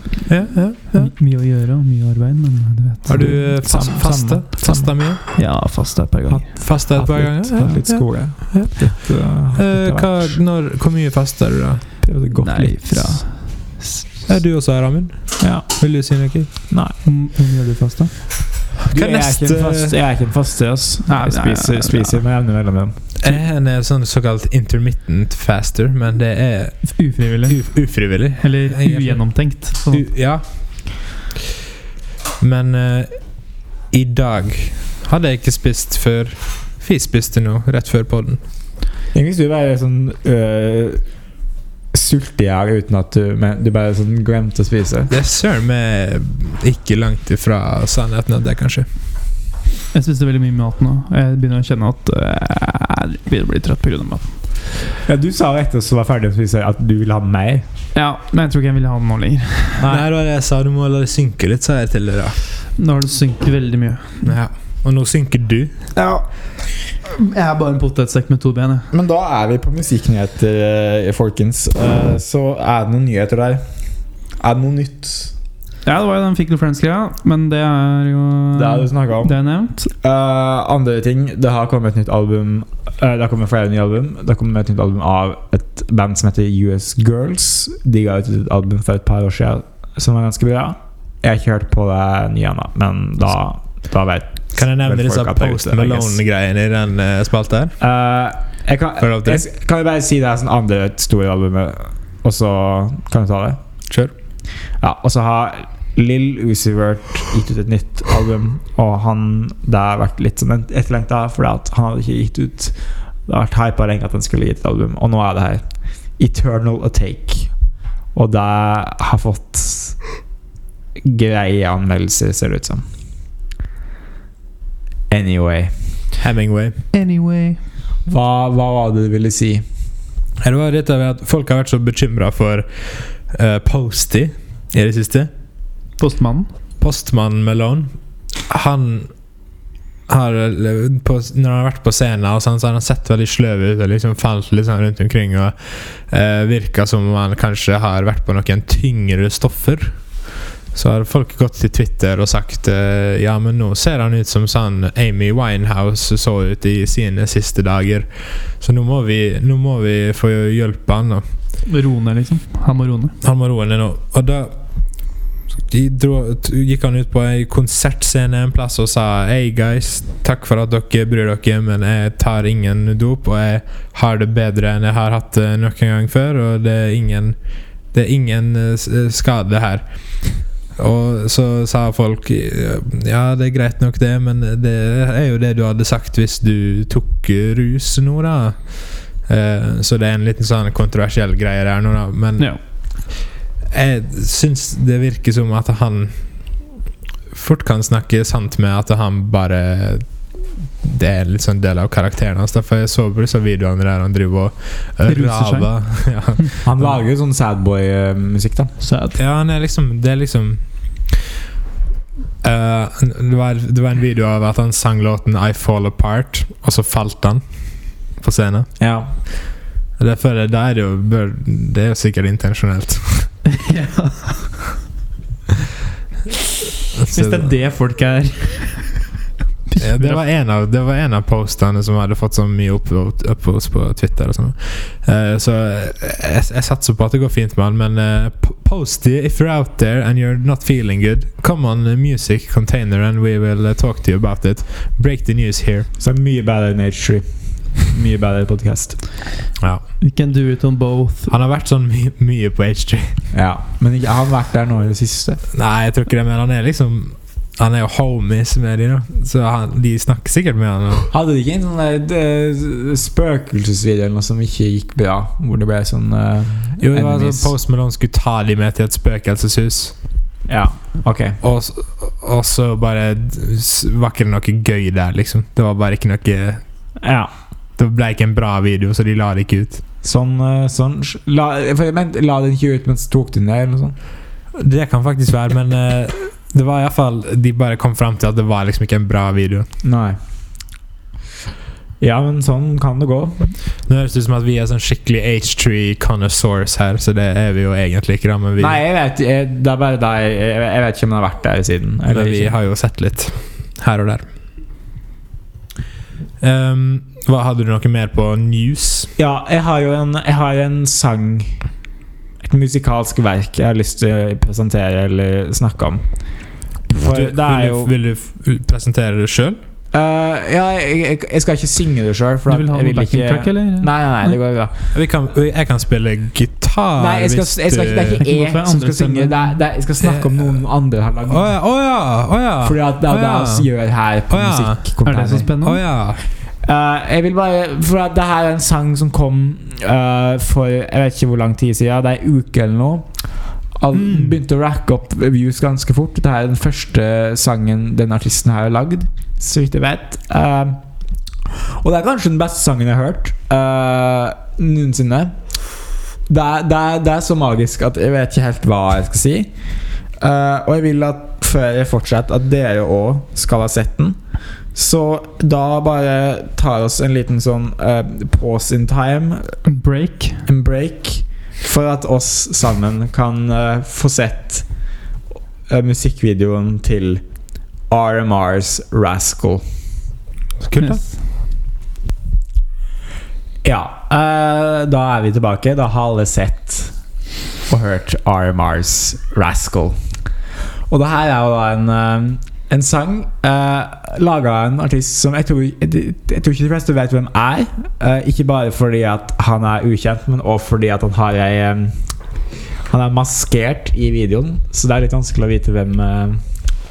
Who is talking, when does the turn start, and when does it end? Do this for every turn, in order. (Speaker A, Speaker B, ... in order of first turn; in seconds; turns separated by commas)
Speaker A: 0.3-1.1, Speaker B: 0.9-3.4, Speaker A: 3.0-5.2, Speaker C: 3.1-4.9, Speaker B: 5.3-6.6, Speaker C: 6.3-10.4, Speaker A: 6.6-12.0, Speaker C: 12.0-13.2, Speaker B: 12.4-13.9, Speaker A: 14.3-16.5, Speaker C: 15.4-15.8, Speaker C: 16.7-16.9, Speaker B: 17.0-18.1, Speaker A: 18.9-19.9, Speaker C: 18.9-23.0, Speaker B: 21.1-22.2, Speaker A: 23.2-29.2, Speaker B: 26.9-30.1, Speaker A: 29.9-31.1, Speaker A: 32.4-38.4, Speaker C: 39.1-41.0, Speaker C: 41.9-45.1, Speaker A: 45.1-48.9, Speaker B: 49.9-54.4, Speaker C: 55.0-57.6, Speaker B: 57.9-59.9, Speaker A: 59.8-62.4, Speaker B: 62.8-64.3, Speaker A: 64.2-65.7, Speaker B: 65.9-68.9, Speaker C: 68.9-73.7, Speaker C: 74.3-75.3, Speaker B: 75.8-79.9, Speaker C: 78.5-79.4, Speaker C: 80.0-96.2, Speaker A: 94.5-97.7, Speaker C: 97.8-103.6, Speaker A: 99.0-99.4, Speaker C: 104.8-117.5, Speaker C: 118.1-120.0, Speaker C: 121.0-122.8, Speaker C: 125.1-125.7, Speaker A: 126.2-126.8, Speaker B: 126.9-127.6, Speaker C: 128.1-129.6, Speaker A: 130.4-135.3, Speaker B: 136.0-136.5, Speaker A: 136.8-137.9, Speaker A: 138.5-139.1, Speaker A: 140.1-149.9, Speaker A: 150.7-161.2, Speaker B: 161.7-163.1, Speaker A: 163.2-164.5, Speaker A: 165.7-177.4, Speaker A: 177.9-192.5, Speaker A: 193.7-196.6, Speaker A: 197.3-206.8, Speaker B: 205.1-206.4, Speaker C: 206.6-208.7, Speaker B: 208.8-209.2, Speaker A: 209.2-210.6, Speaker A: 212.4-218.7, Speaker C: 218.8-219.1, Speaker A: 220.0-223.3, Speaker B: 223.5-224.6, Speaker A: 226.9-227.5, Speaker B: 227.1-229.0, Speaker B: 229.7-230.2, Speaker A: 229.8-245.9, Speaker C: 246.0-249.0, Speaker A: 249.6-249.8, Speaker B: 250.0-251.3, Speaker A: 251.3-253.2, Speaker C: 253.3-255.4, Speaker A: 255.5-261.1, Speaker C: 261.1-267.5, Speaker A: 266.8-269.9, Speaker C: 270.5-271.4, Speaker A: 271.4-276.6, Speaker C: 277.0-277.3, Speaker A: 277.8-279.8, Speaker C: 280.0-283.9, Speaker A: 284.5-289.7, Speaker C: 289.8-290.2, Speaker C: 292.0-293.5, Speaker A: 293.9-298.8, Speaker C: 298.6-302.6, Speaker A: 302.1-304.3, Speaker A: 306.4-309.1, Speaker C: 309.2-311.7, Speaker C: 312.4-316.2, Speaker C: 316.9-317.9, Speaker A: 316.9-319.6, Speaker C: 319.9-324.7, Speaker B: 322.5-324.3, Speaker A: 324.9-328.2, Speaker C: 327.0-331.5, Speaker B: 328.2-329.6, Speaker A: 330.0-330.6, Speaker A: 331.3-333.7, Speaker C: 332.6-335.5, Speaker A: 334.3-335.0, Speaker B: 335.0-335.8, Speaker A: 335.6-336.2, Speaker C: 336.6-350.8, Speaker A: 344.0-344.3, Speaker C: 351.8-359.5, Speaker C: 360.2-369.6, Speaker B: 369.6-370.4, Speaker C: 370.4-374.7, Speaker C: 375.7-379.6, Speaker A: 380.6-381.0, Speaker C: 383.6-387.0, Speaker C: 387.7-390.0, Speaker C: 390.9-402.0, Speaker C: 402.9-406.4